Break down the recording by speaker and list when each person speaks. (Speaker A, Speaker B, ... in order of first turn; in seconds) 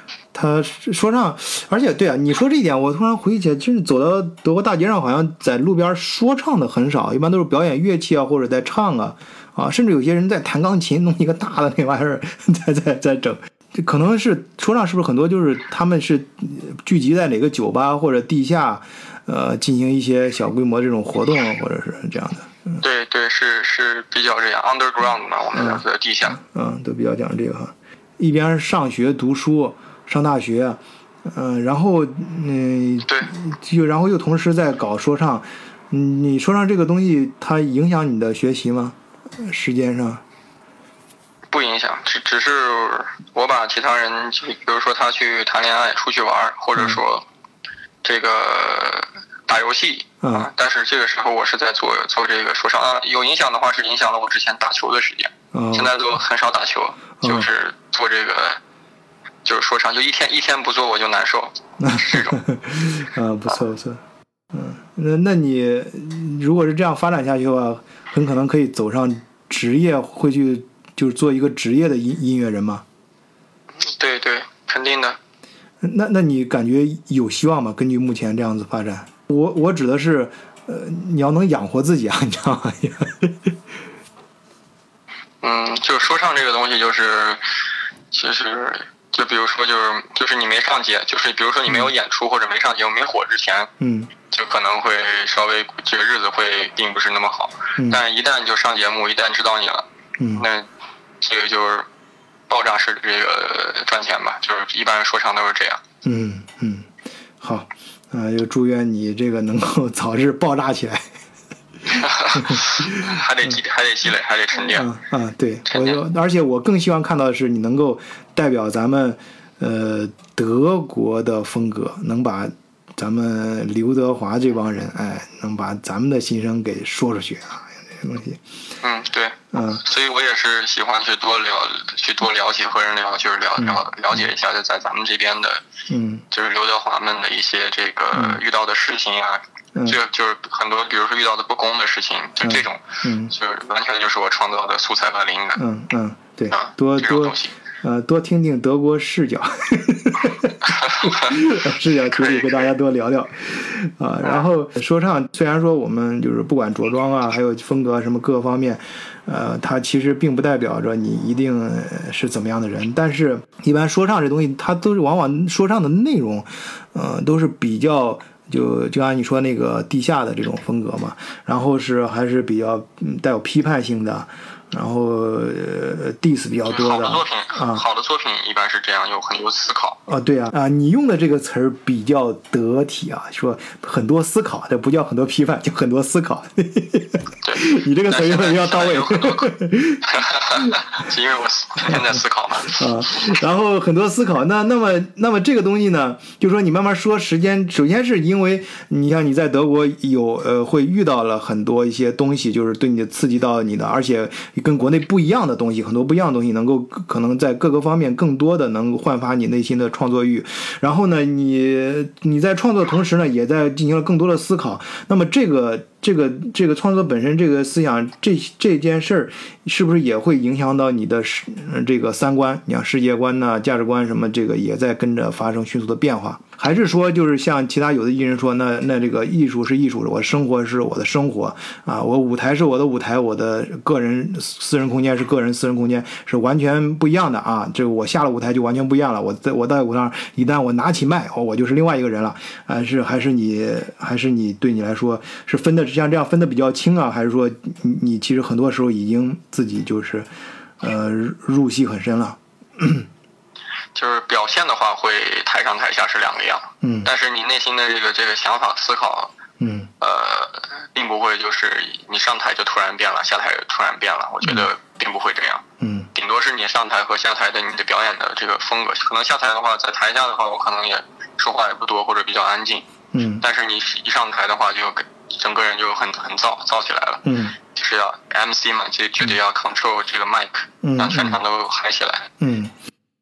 Speaker A: 0.3-22.8, 25.5-40.2, 46.8-47.0, 50.2-50.5, 55.5-55.9, 57.2-57.5, 61.8-64.0, 64.5-72.8, 75.8-83.5, 93.8-94.1, 97.8-98.0, 100.2-100.5, 106.0-106.9, 107.4-111.1, 112.3-113.6, 114.7-128.4, 129.5-129.8, 133.6-134.3, 135.9-136.2, 138.1-138.4, 142.4-143.3, 145.6-177.8, 180.1-190.1, 191.9-250.3, 250.8-253.1, 256.8-257.1, 259.6-259.9, 264.4-264.7, 265.8-266.1, 273.1-273.4, 277.2-277.6, 280.8-281.4, 282.4-282.7
Speaker B: 22.8-26.4, 33.0-33.3, 41.5-47.2, 48.0-58.6, 59.5-62.4, 73.8-75.2, 85.4-87.4, 88.1-93.7, 94.3-100.7, 101.2-101.9, 102.5-105.8, 111.9-114.9, 115.7-116.0, 128.8-135.6, 136.3-145.6, 146.5-147.5, 150.6-151.5, 152.1-152.7, 176.7-180.0, 187.4-189.5, 190.1-193.3, 253.9-259.3, 260.0-265.6, 266.1-272.9, 273.4-282.3